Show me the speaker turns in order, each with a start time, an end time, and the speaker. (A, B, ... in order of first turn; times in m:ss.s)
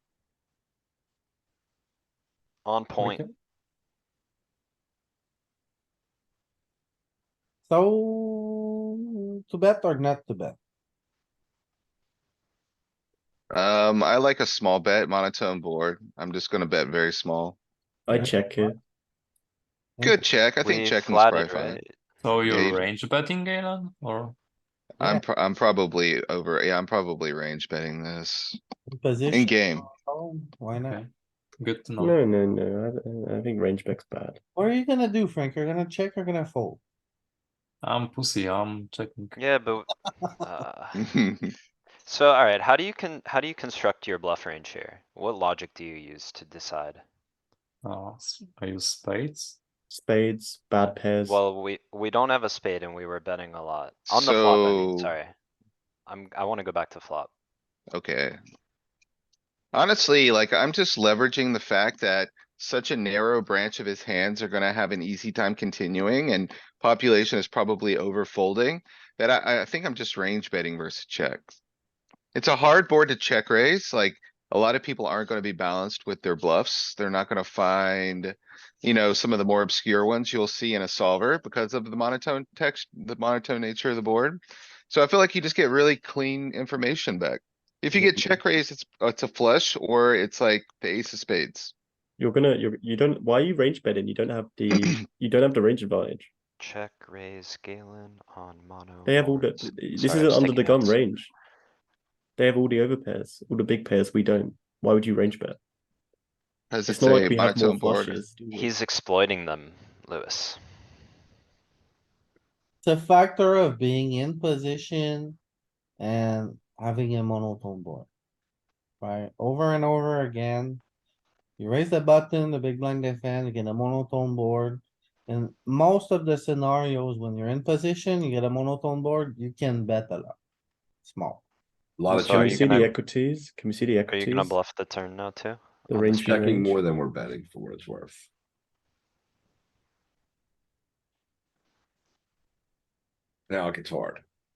0:02.6-0:03.2 A
0:07.7-0:10.6 B
0:13.5-0:17.6 C
0:18.1-0:18.8 D
0:18.1-0:18.7 B
0:20.0-0:20.2 B
0:20.0-0:21.8 C
0:20.6-0:21.9 A
0:22.2-0:24.4 E
0:22.5-0:22.8 C
0:25.0-0:28.6 C
0:25.0-0:25.2 B
0:28.9-0:31.0 B
0:29.3-0:29.9 C
0:30.7-0:32.2 E
0:32.0-0:34.4 D
0:34.6-0:36.8 B
0:37.8-0:39.4 E
0:39.4-0:41.0 A
0:41.0-0:41.5 C
0:42.0-0:47.0 A
0:47.8-0:49.6 E
0:49.9-0:51.4 D
0:51.3-0:55.3 A
0:54.1-0:55.1 C
0:56.1-0:57.3 A
0:57.9-0:58.4 C
0:59.7-1:11.5 C
1:12.4-1:31.7 C
1:27.9-1:28.4 D
1:32.2-1:36.3 D
1:36.6-1:41.0 A
1:39.1-1:41.3 D
1:42.4-1:45.6 D
1:46.7-1:48.2 C
1:46.8-1:48.7 D
1:48.5-1:50.6 A
1:52.8-1:55.4 B
1:56.0-1:58.1 B
1:59.0-2:00.8 B
2:01.6-2:10.4 B
2:11.0-2:11.4 B
2:12.0-2:12.9 F
2:12.1-2:14.6 D
2:12.1-2:12.9 A
2:14.1-2:16.2 A
2:15.9-2:16.8 D
2:16.1-2:18.3 F
2:23.5-2:24.2 F